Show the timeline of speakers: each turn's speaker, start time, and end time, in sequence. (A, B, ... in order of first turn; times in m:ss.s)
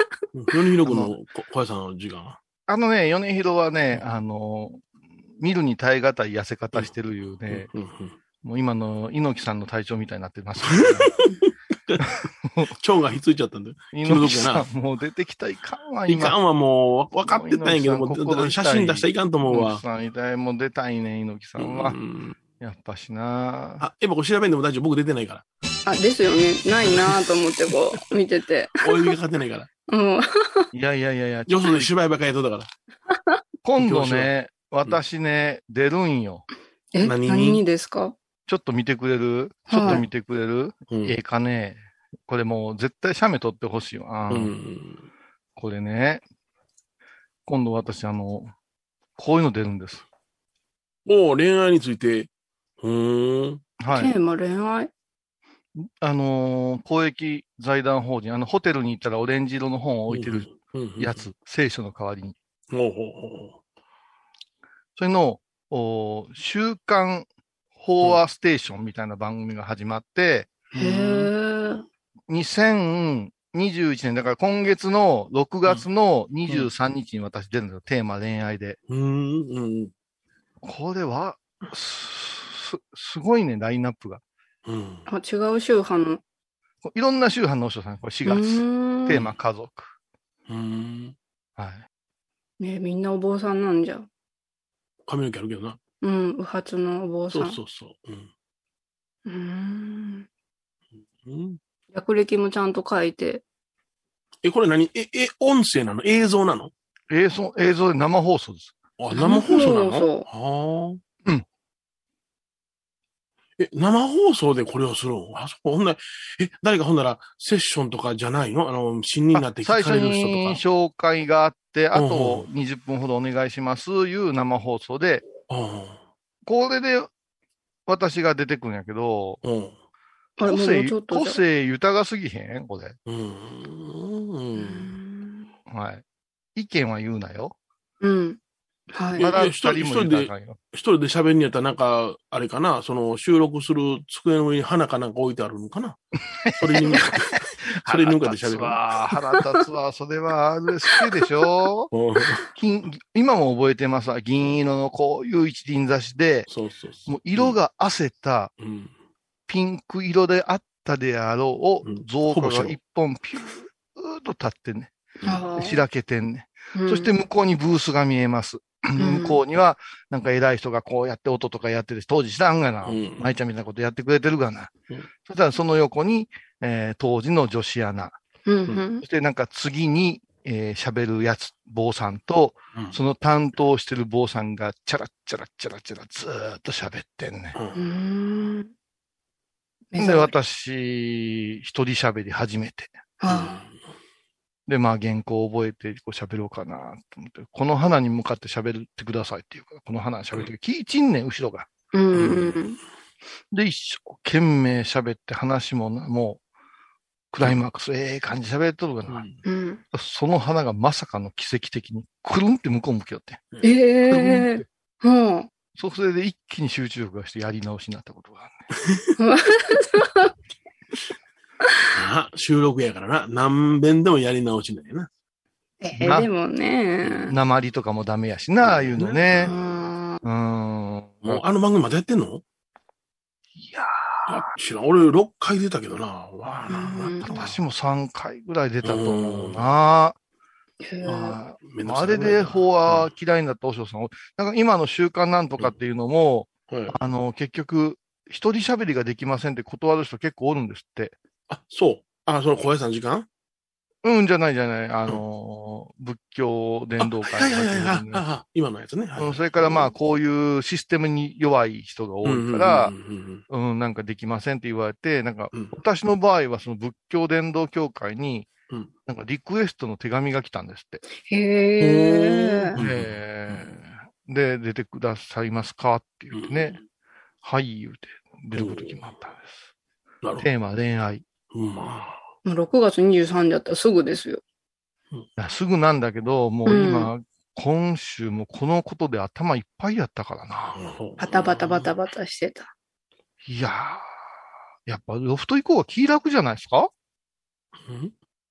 0:00.3-0:02.4 A
0:00.8-0:01.1 B
0:02.7-0:07.7 B
0:07.5-0:08.2 A
0:08.4-0:11.2 B
0:10.6-0:11.3 A
0:11.9-0:12.3 A
0:12.0-0:12.7 B
0:12.8-0:14.7 A
0:13.9-0:16.4 B
0:16.1-0:19.8 A
0:17.2-0:22.0 B
0:21.6-0:22.4 A
0:22.6-0:23.8 B
0:23.8-0:25.4 A
0:25.9-0:29.1 C
0:26.9-0:27.2 A
0:28.8-0:29.7 A
0:29.9-0:30.7 C
0:30.7-0:31.9 B
0:31.5-0:32.7 A
0:33.1-0:33.4 C
0:33.6-0:36.5 B
0:33.8-0:34.3 A
0:36.9-0:38.2 C
0:37.0-0:37.6 A
0:38.5-0:44.5 B
0:39.7-0:40.0 C
0:40.9-0:41.2 A
0:44.3-0:45.1 A
0:45.6-0:46.2 B
0:47.5-0:48.5 B
0:49.2-0:50.0 B
0:51.1-0:52.3 A
0:52.8-0:53.6 A
0:53.8-0:54.2 B
0:53.9-0:54.9 C
0:55.8-1:02.4 B
1:00.1-1:01.2 A
1:02.7-1:03.6 A
1:05.0-1:10.5 B
1:10.7-1:11.3 A
1:10.8-1:11.8 C
1:12.3-1:18.8 B
1:18.9-1:19.9 A
1:20.6-1:24.2 B
1:24.6-1:25.1 A
1:25.1-1:26.2 C
1:26.8-1:29.9 B
1:28.3-1:29.2 C
1:30.5-1:31.2 A
1:31.6-1:31.8 B
1:32.6-1:34.1 C
1:35.1-1:35.8 A
1:36.0-1:37.6 C
1:37.3-1:38.3 A
1:39.3-1:40.3 C
1:41.2-1:41.6 A
1:41.9-1:43.4 C
1:44.4-1:46.7 A
1:47.1-1:48.7 B
1:49.0-1:51.0 A
1:49.1-1:50.3 C
1:53.6-2:00.6 A
1:59.3-2:05.3 B
2:01.9-2:02.5 A
2:05.5-2:06.0 A
2:06.4-2:07.1 B
2:07.9-2:09.4 B
2:09.4-2:09.8 A
2:10.4-2:11.4 C
2:10.4-2:13.0 B
2:13.1-2:15.0 A
2:14.6-2:15.5 C
2:15.7-2:16.0 B
2:16.6-2:17.6 B
2:18.0-2:18.4 C
2:18.9-2:19.3 C
2:19.2-2:26.0 A
2:19.2-2:20.6 B
2:26.4-2:31.9 B
2:26.6-2:28.8 A
2:31.9-2:32.4 A
2:32.6-2:36.5 B
2:36.5-2:37.6 A
2:37.1-2:38.5 B
2:38.6-2:38.9 A
2:39.5-2:44.9 B
2:41.8-2:42.8 A
2:45.2-2:45.8 C
2:45.6-2:54.7 B
2:46.8-2:47.1 C
2:49.0-2:49.4 C
2:52.8-2:53.3 A
2:55.3-2:58.2 B
2:58.5-2:59.0 C
2:59.0-3:07.6 B
3:02.7-3:03.0 A
3:07.5-3:07.8 A
3:07.8-3:08.7 C
3:09.9-3:10.3 C
3:10.0-3:12.9 B
3:13.2-3:13.6 C
3:13.3-3:13.7 A
3:14.7-3:21.7 B
3:21.9-3:22.8 C
3:22.1-3:22.6 A
3:23.5-3:26.4 B
3:27.3-3:29.3 B
3:29.1-3:29.4 A
3:29.4-3:29.8 C
3:29.9-3:33.4 B
3:33.6-3:35.5 C
3:34.1-3:34.7 B
3:35.8-3:38.6 B
3:38.8-3:39.1 A
3:39.2-3:40.3 C
3:41.9-3:45.1 A
3:45.8-3:47.4 C
3:46.0-3:46.3 B
3:47.0-3:47.3 A
3:47.3-3:49.5 B
3:48.6-3:49.6 A
3:49.5-3:50.2 C
3:50.2-3:51.4 B
3:51.2-3:52.4 A
3:53.6-3:54.5 B
3:54.3-3:57.5 A
3:56.7-3:57.4 C
3:57.2-4:00.2 B
3:58.8-3:59.7 A
4:00.8-4:01.4 C
4:01.1-4:11.2 B
4:01.6-4:03.1 A
4:06.7-4:07.0 A
4:11.5-4:13.3 A
4:14.0-4:18.2 B
4:17.0-4:19.9 A
4:19.2-4:23.0 B
4:22.2-4:23.4 A
4:23.5-4:28.5 B
4:29.1-4:31.0 B
4:31.2-4:32.8 C
4:31.8-4:33.8 A
4:32.8-4:36.8 B
4:36.3-4:36.8 A
4:37.4-4:39.6 B
4:38.5-4:39.1 A
4:40.2-4:40.5 A
4:40.4-4:41.2 B
4:41.5-4:42.2 A
4:42.5-4:44.4 C
4:45.4-4:50.9 B
4:46.7-4:47.1 C
4:50.7-4:51.9 A
4:51.2-4:52.7 C
4:53.4-4:54.1 B
4:54.9-4:56.9 B
4:57.9-4:58.1 A